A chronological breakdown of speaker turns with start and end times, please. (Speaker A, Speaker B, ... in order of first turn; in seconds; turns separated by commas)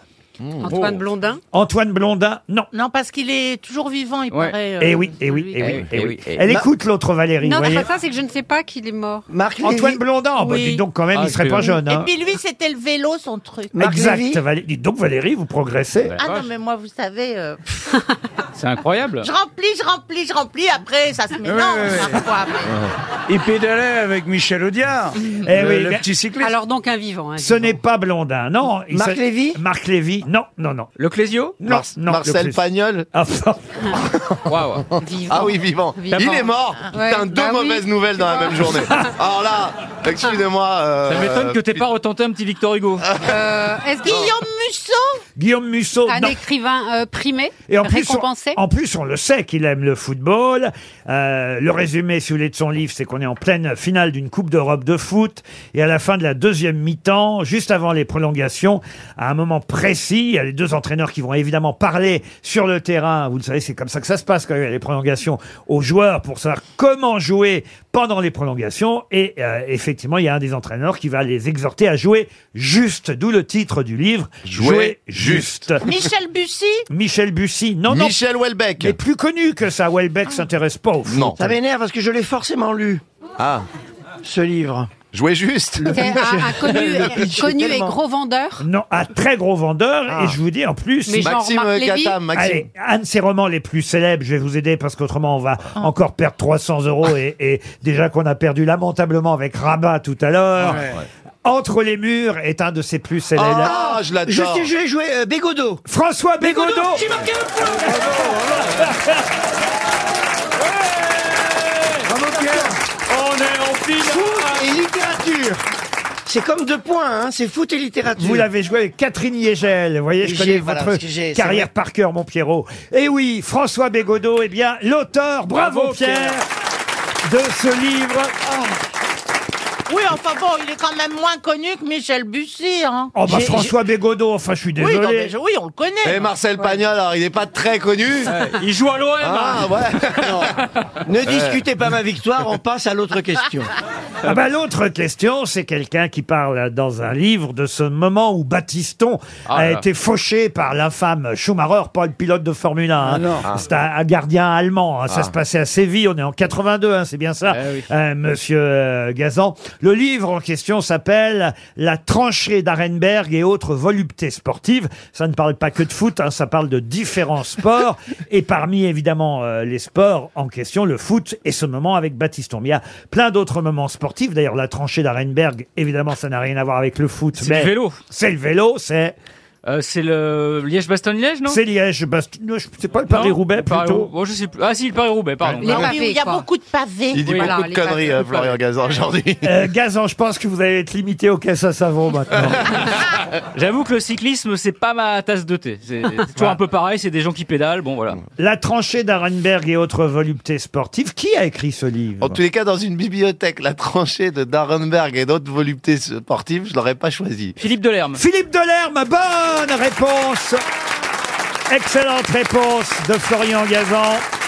Speaker A: 0.4-1.0, Speaker B: 0.6-1.4, Speaker C: 1.5-2.7, Speaker D: 2.7-5.8, Speaker E: 4.3-4.5, Speaker C: 4.8-7.9, Speaker E: 5.6-6.5, Speaker B: 7.4-9.2, Speaker F: 9.3-10.0, Speaker C: 9.6-12.1, Speaker D: 10.4-10.8, Speaker E: 11.1-11.8, Speaker D: 11.8-13.7, Speaker F: 13.7-14.4, Speaker C: 13.8-16.1, Speaker E: 16.1-16.5, Speaker D: 16.2-17.9, Speaker E: 18.5-19.3, Speaker D: 19.2-22.8, Speaker G: 21.4-22.2, Speaker G: 23.3-26.6, Speaker C: 25.4-26.0, Speaker B: 26.4-27.8, Speaker C: 27.4-30.9, Speaker F: 28.9-29.6, Speaker E: 31.0-31.6, Speaker C: 31.6-33.8, Speaker A: 31.6-33.1, Speaker A: 34.0-41.8, Speaker E: 34.5-34.9, Speaker B: 35.0-39.1, Speaker E: 41.0-43.1, Speaker A: 43.0-43.4, Speaker B: 43.2-44.3, Speaker D: 44.0-45.2, Speaker A: 44.1-44.3, Speaker C: 45.4-46.4, Speaker B: 46.1-48.6, Speaker C: 47.7-75.8, Speaker A: 74.4-75.6, Speaker D: 75.8-76.8, Speaker C: 76.9-78.2, Speaker A: 77.9-79.0, Speaker C: 78.8-81.4, Speaker A: 81.0-81.5, Speaker F: 81.4-83.0, Speaker A: 83.4-83.6, Speaker F: 84.2-84.9, Speaker A: 85.1-87.2, Speaker B: 85.8-88.6, Speaker F: 86.1-88.0, Speaker C: 88.6-91.3, Speaker A: 90.1-90.4, Speaker B: 91.1-92.2, Speaker A: 91.2-92.6, Speaker C: 92.3-100.9, Speaker C: 101.4-103.8, Speaker A: 103.3-104.7, Speaker F: 103.6-105.8, Speaker C: 105.8-107.1, Speaker F: 106.5-107.9, Speaker C: 107.8-109.3, Speaker F: 112.2-112.7, Speaker C: 113.6-114.3, Speaker F: 114.0-115.5, Speaker F: 116.2-118.5, Speaker C: 118.2-126.5, Speaker F: 120.2-121.7, Speaker E: 125.5-126.4, Speaker C: 127.2-128.3, Speaker D: 129.9-133.7, Speaker C: 133.1-135.3, Speaker D: 134.8-136.3, Speaker A: 136.0-138.3, Speaker E: 138.2-139.7, Speaker A: 139.2-140.5, Speaker F: 140.2-140.5, Speaker F: 141.1-143.7, Speaker A: 141.2-141.6, Speaker C: 144.2-179.1, Speaker E: 149.5-149.8, Speaker G: 153.0-153.4, Speaker E: 157.5-157.9, Speaker E: 177.4-178.0, Speaker E: 179.7-181.6, Speaker C: 181.4-184.1, Speaker E: 183.1-186.0, Speaker B: 185.6-186.4, Speaker D: 185.6-187.6, Speaker A: 187.1-189.5, Speaker E: 187.2-187.5, Speaker B: 187.3-188.3, Speaker E: 188.3-188.6, Speaker C: 189.4-192.9, Speaker E: 193.5-198.2, Speaker C: 198.4-202.4, Speaker A: 202.2-207.6, Speaker E: 207.6-208.2, Speaker C: 208.2-210.6, Speaker C: 211.7-214.2